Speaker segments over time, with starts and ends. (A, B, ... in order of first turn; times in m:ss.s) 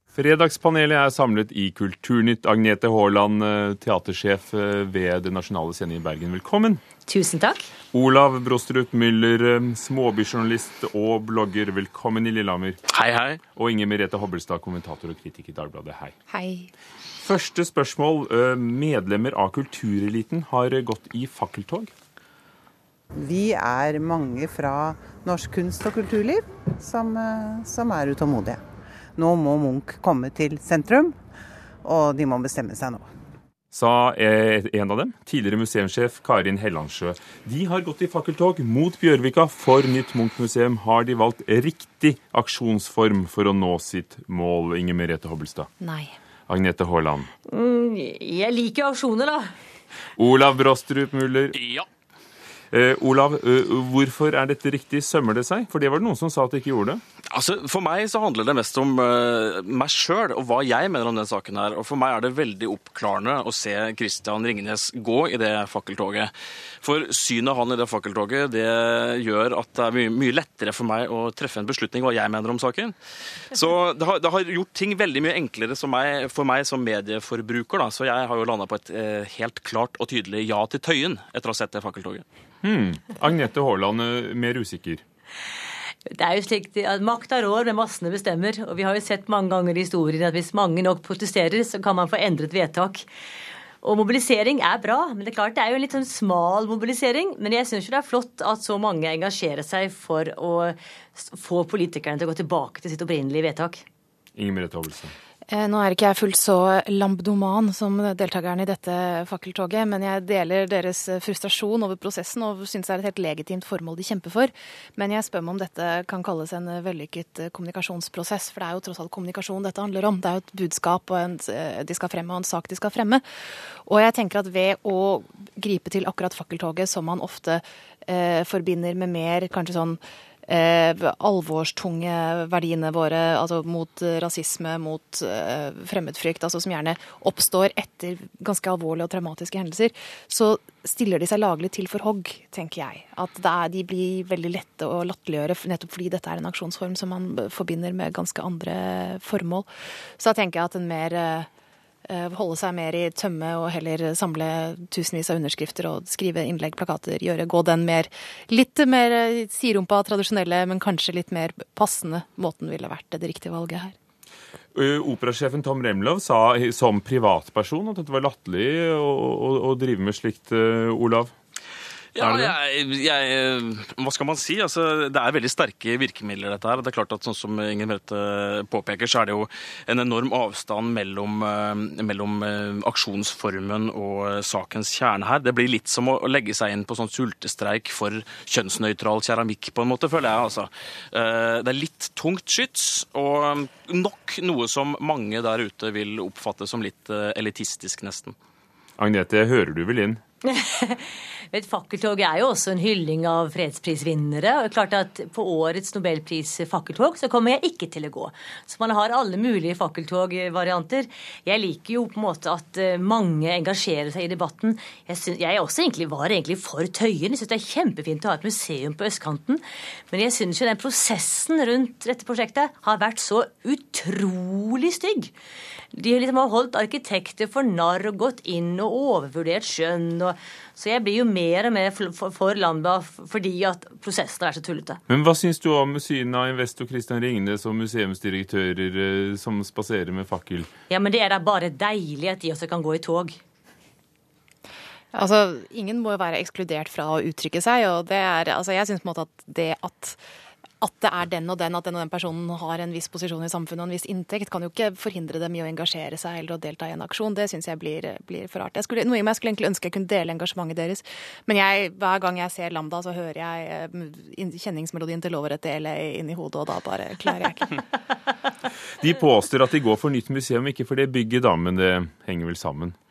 0:00.1-0:06.8 A
0:07.1-0:07.7 B
0:07.9-0:12.8 A
0:12.9-0:13.4 C
0:13.6-0:16.1 A
0:16.3-0:16.7 D
0:17.2-0:21.9 A
0:23.1-0:28.6 E
0:29.2-0:31.2 E
0:31.8-0:33.1 E
0:33.7-0:45.7 A
0:45.8-0:46.1 D
0:46.5-0:47.3 A
0:47.5-0:49.5 B
0:50.2-0:51.6 A
0:51.6-0:51.9 C
0:52.7-0:57.0 A
0:57.3-1:06.3 C
1:06.8-1:13.0 C
1:13.5-1:22.2 C
1:22.6-1:25.0 A
1:26.1-1:33.0 B
1:33.8-1:43.8 B
1:44.4-1:45.1 A
1:45.5-2:03.2 D
2:03.9-2:29.7 D
2:30.2-2:31.5 D
2:32.1-2:44.0 D
2:44.7-2:51.3 A
2:52.2-3:18.4 C
2:52.2-2:52.6 A
3:19.0-3:20.2 A
3:20.5-3:45.3 B
3:45.9-3:55.0 B
3:55.1-4:00.7 A
4:00.9-4:03.4 B
4:05.1-4:10.2 D
4:10.8-4:27.8 D
4:29.0-4:33.0 A